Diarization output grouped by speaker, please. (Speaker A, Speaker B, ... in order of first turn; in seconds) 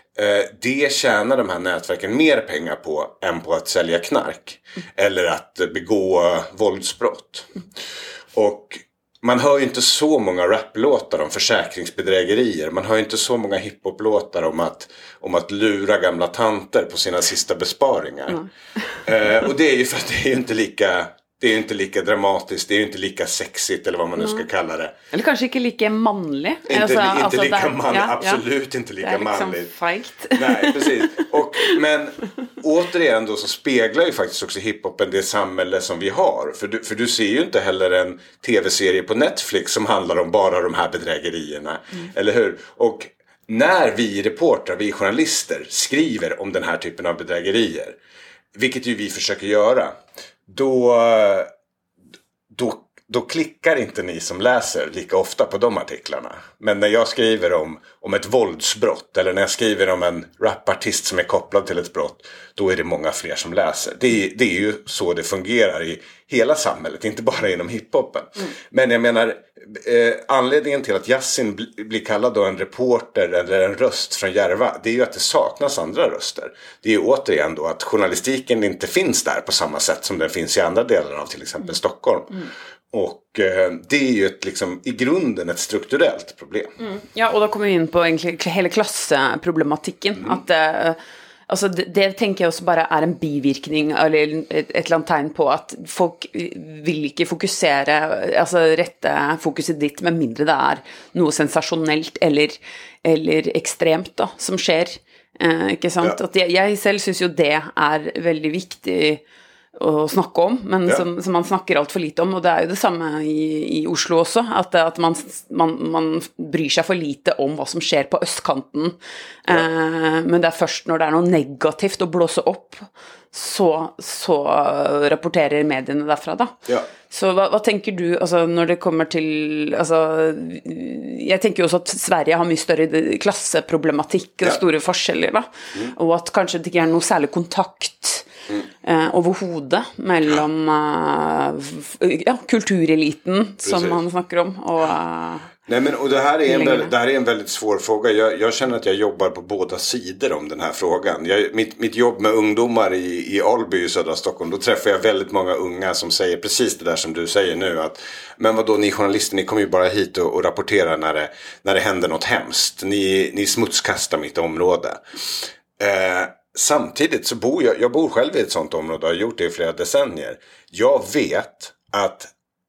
Speaker A: 0.1-7.5, 8.3-18.4, 19.0-24.9, 26.6-29.7, 30.3-48.0, 48.5-49.9, 50.5-51.5, 52.5-86.7, 143.6-144.0, 145.7-172.3
Speaker B: 25.1-28.4, 29.0-31.3, 86.8-109.2, 109.7-126.5, 127.1-138.3, 138.8-145.5, 146.5-146.9